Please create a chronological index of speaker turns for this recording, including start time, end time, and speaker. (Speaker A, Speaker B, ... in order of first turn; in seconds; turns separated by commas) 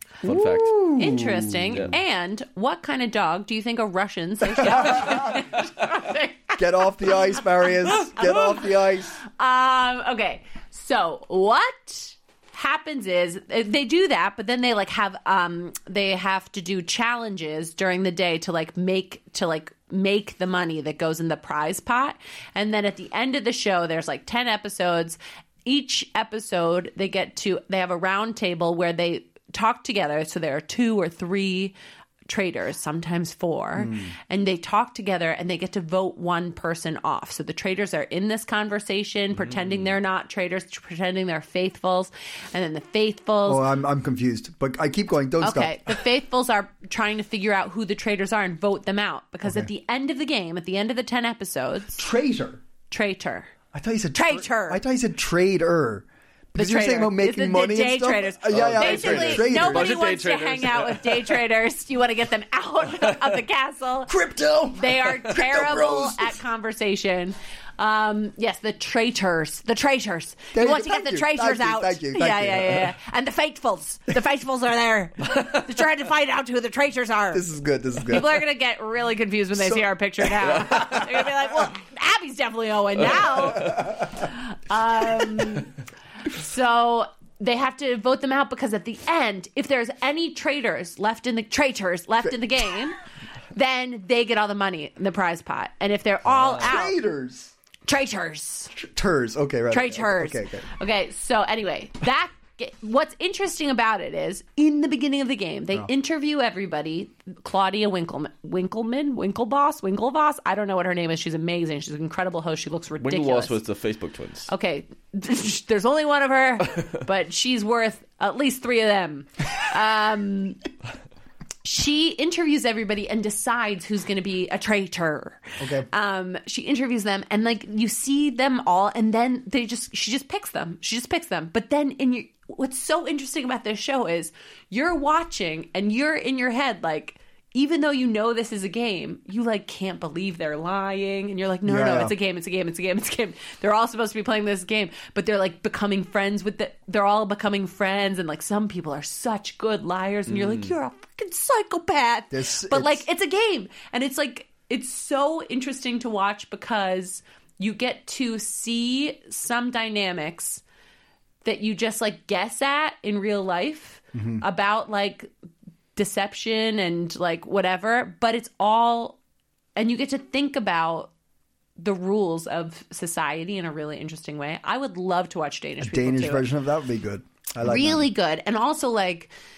Speaker A: 0.2-0.8, Speaker B: 0.2-1.9, Speaker C: 0.9-8.3, Speaker B: 4.6-5.4, Speaker B: 6.6-9.2, Speaker C: 9.4-31.8, Speaker C: 32.3-43.6, Speaker B: 33.8-34.1, Speaker A: 39.4-39.9, Speaker B: 43.5-46.0, Speaker C: 45.4-52.0, Speaker B: 49.5-49.7, Speaker B: 52.0-52.6, Speaker C: 52.9-53.5, Speaker B: 53.7-60.1, Speaker C: 54.1-54.8, Speaker C: 56.6-64.1, Speaker A: 58.5-61.5, Speaker B: 64.1-66.4, Speaker C: 64.7-77.4, Speaker B: 70.5-72.9, Speaker B: 77.3-78.5, Speaker C: 78.1-85.7, Speaker B: 79.5-81.0, Speaker A: 80.7-81.0, Speaker B: 83.4-84.1, Speaker C: 86.2-93.0, Speaker C: 93.5-97.0, Speaker B: 96.6-97.5, Speaker C: 97.8-98.7, Speaker B: 98.7-100.7, Speaker C: 99.7-113.6, Speaker A: 113.0-114.5, Speaker C: 114.5-120.6, Speaker C: 121.6-160.6, Speaker B: 125.6-125.9, Speaker B: 141.7-142.1, Speaker A: 150.3-150.7, Speaker B: 152.3-153.1, Speaker C: 161.4-165.3, Speaker B: 164.1-164.4, Speaker C: 166.0-169.2, Speaker C: 169.8-171.1, Speaker C: 171.8-176.5, Speaker B: 175.8-178.1, Speaker C: 177.6-179.3